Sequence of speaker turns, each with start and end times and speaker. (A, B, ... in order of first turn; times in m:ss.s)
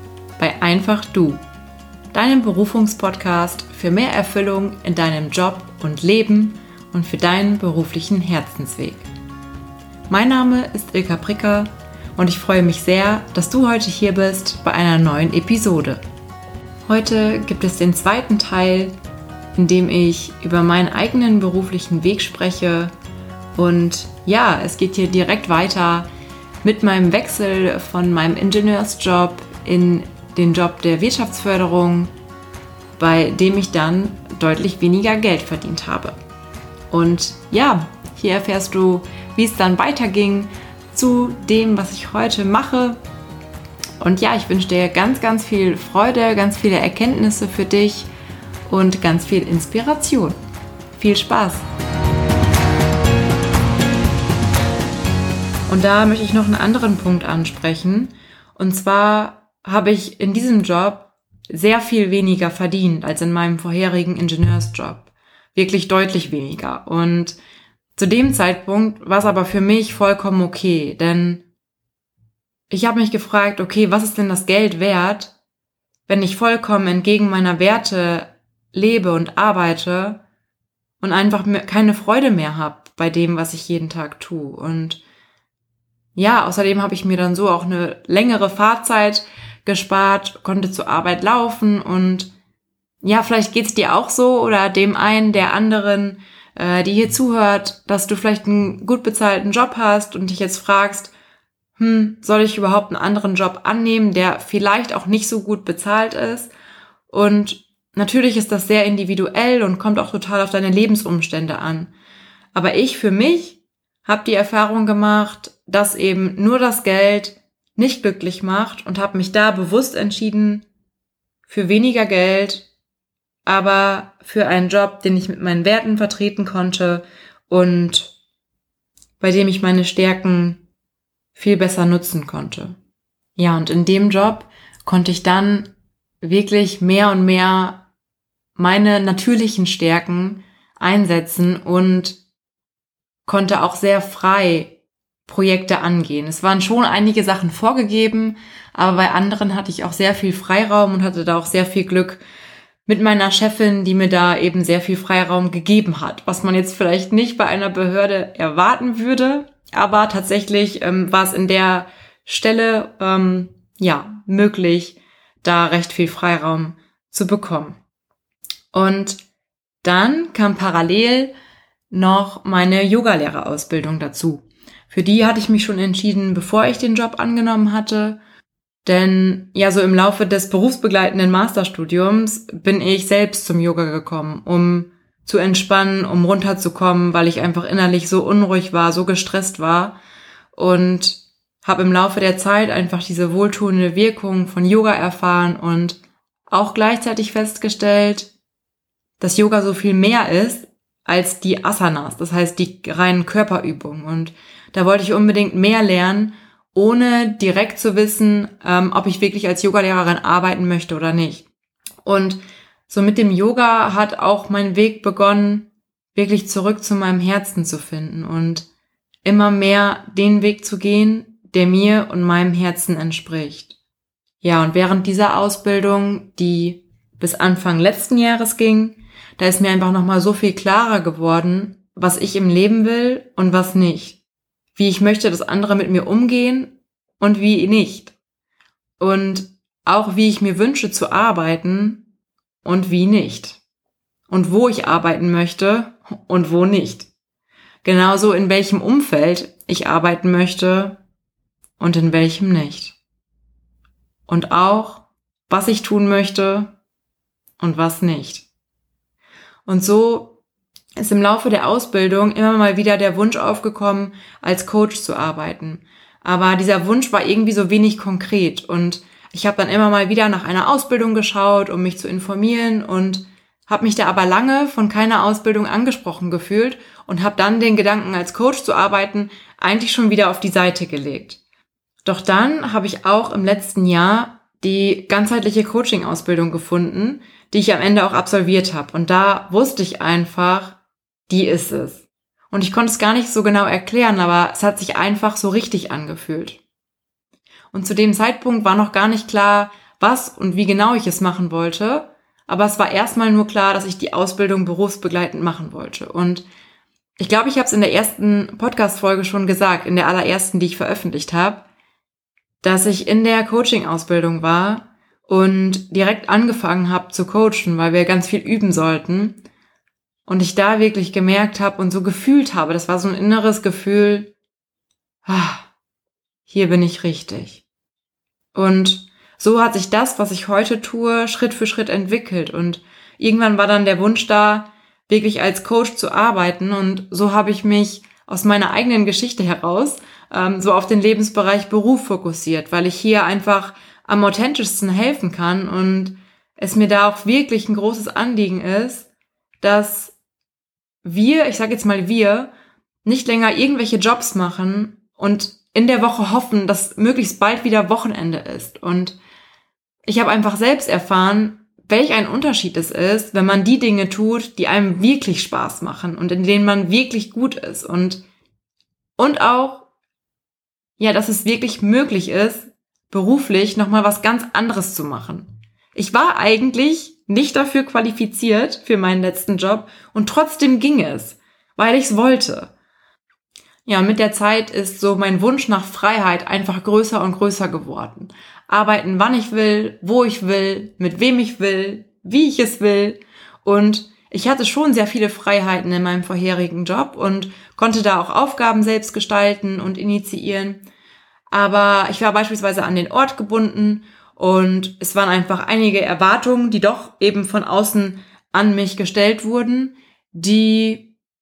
0:00.4-0:01.4 A
0:02.1-0:09.1 A
0:10.1-0:16.0 A
0:16.9-0:18.9 A
0:19.6-0:22.9 A
0:23.6-0:26.1 A
0:26.6-0:32.1 A
0:33.0-0:36.2 A
0:36.9-0:43.0 A
0:44.0-0:48.1 A
0:48.7-0:50.4 A
0:51.0-0:51.6 A
0:55.7-1:07.4 A
1:08.0-1:11.4 A
1:12.7-1:15.3 A
1:16.1-1:20.2 A
1:21.0-1:25.0 A
1:26.2-1:32.3 A
1:33.0-1:41.1 A
1:41.8-1:46.5 A
1:47.1-1:51.9 A
1:52.6-2:00.7 A
2:01.5-2:02.7 A
2:03.5-2:08.1 A
2:09.2-2:10.6 A
2:11.4-2:12.8 A
2:13.4-2:17.9 A
2:18.6-2:22.2 A
2:23.3-2:32.2 A
2:32.9-2:47.8 A
2:48.7-2:49.2 A
2:49.8-2:51.3 A
2:51.9-2:58.2 A
2:58.8-3:10.0 A
3:10.6-3:18.3 A
3:19.2-3:31.5 A
3:32.0-3:38.7 A
3:39.2-3:43.8 A
3:44.4-3:54.2 A
3:54.8-3:58.1 A
3:59.0-4:02.0 A
4:02.6-4:03.6 A
4:04.3-4:07.1 A
4:07.8-4:11.0 A
4:11.8-4:13.0 A
4:14.3-4:16.7 A
4:17.6-4:18.5 A
4:19.7-4:20.4 A
4:21.0-4:41.4 A
4:42.0-4:50.8 A
4:51.3-4:56.6 A
4:57.7-5:06.5 A
5:07.2-5:11.7 A
5:12.6-5:19.4 A
5:20.3-5:24.3 A
5:25.3-5:25.7 A
5:26.5-5:27.6 A
5:28.6-5:49.1 A
5:49.6-5:50.2 A
5:51.0-5:52.5 A
5:53.0-5:59.2 A
6:00.1-6:08.2 A
6:09.2-6:09.9 A
6:11.0-6:22.7 A
6:23.9-6:40.8 A
6:41.5-6:51.1 A